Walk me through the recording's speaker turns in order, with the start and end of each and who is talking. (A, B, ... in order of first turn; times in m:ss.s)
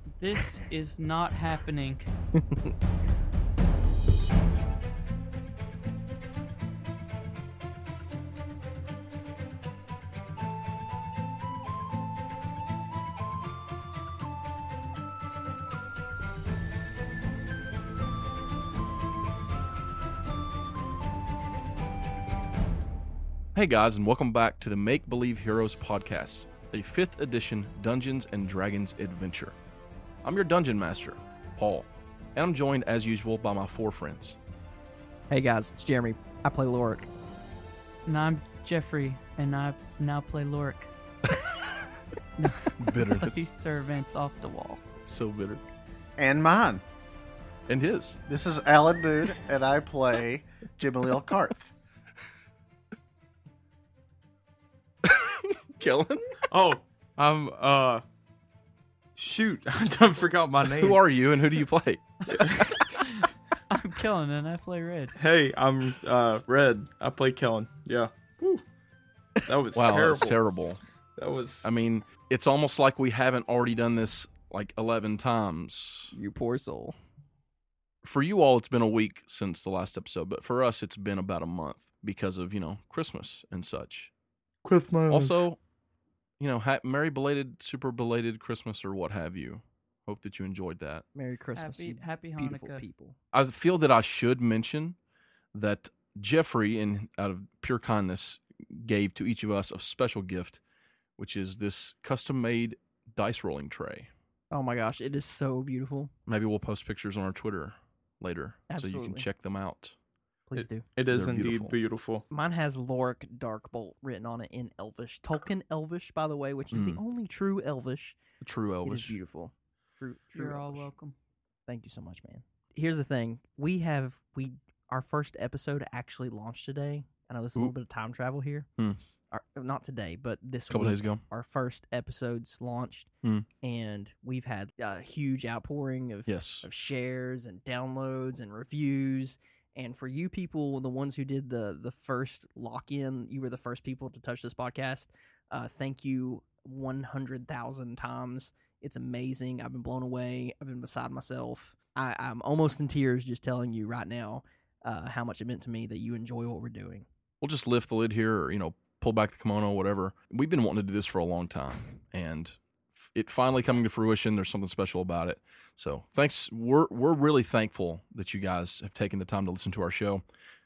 0:00.2-0:02.1 A
0:02.4-0:02.7 B
0:23.6-0:29.6 C
0:30.2-0:34.4 C
0:35.3-0:37.1 B
0:38.1-0:40.9 A
0:42.4-0:44.8 A
0:42.7-0:43.5 C
0:45.1-0:45.6 C
0:46.2-0:46.8 D
0:47.7-0:48.2 C
0:48.3-0:51.7 D
0:55.0-0:56.4 C
0:56.5-0:58.0 E
0:59.2-1:01.0 E
1:00.7-1:02.6 C
1:02.9-1:05.2 A
1:05.2-1:08.6 E
1:09.4-1:10.4 E
1:09.8-1:10.8 C
1:11.2-1:11.7 E
1:11.6-1:16.1 C
1:16.1-1:17.0 B
1:18.0-1:24.1 C
1:24.6-1:25.4 E
1:25.1-1:25.6 C
1:26.4-1:31.0 C
1:31.2-1:33.2 B
1:31.6-1:32.8 A
1:33.3-1:35.0 C
1:35.5-1:40.6 C
1:41.2-1:44.1 C
1:44.5-1:46.1 B
1:46.3-1:50.0 C
1:48.7-1:49.3 B
1:50.5-1:50.8 B
1:50.6-1:52.2 E
1:51.1-1:51.7 C
1:52.3-1:58.2 B
1:56.7-1:57.0 C
1:58.4-1:59.2 C
1:58.8-2:00.9 B
2:00.3-2:01.1 A
2:01.7-2:08.7 B
2:09.3-2:13.1 B
2:10.7-2:11.2 C
2:13.6-2:37.1 B
2:16.3-2:16.7 C
2:37.4-2:42.6 C
2:43.1-2:50.2 C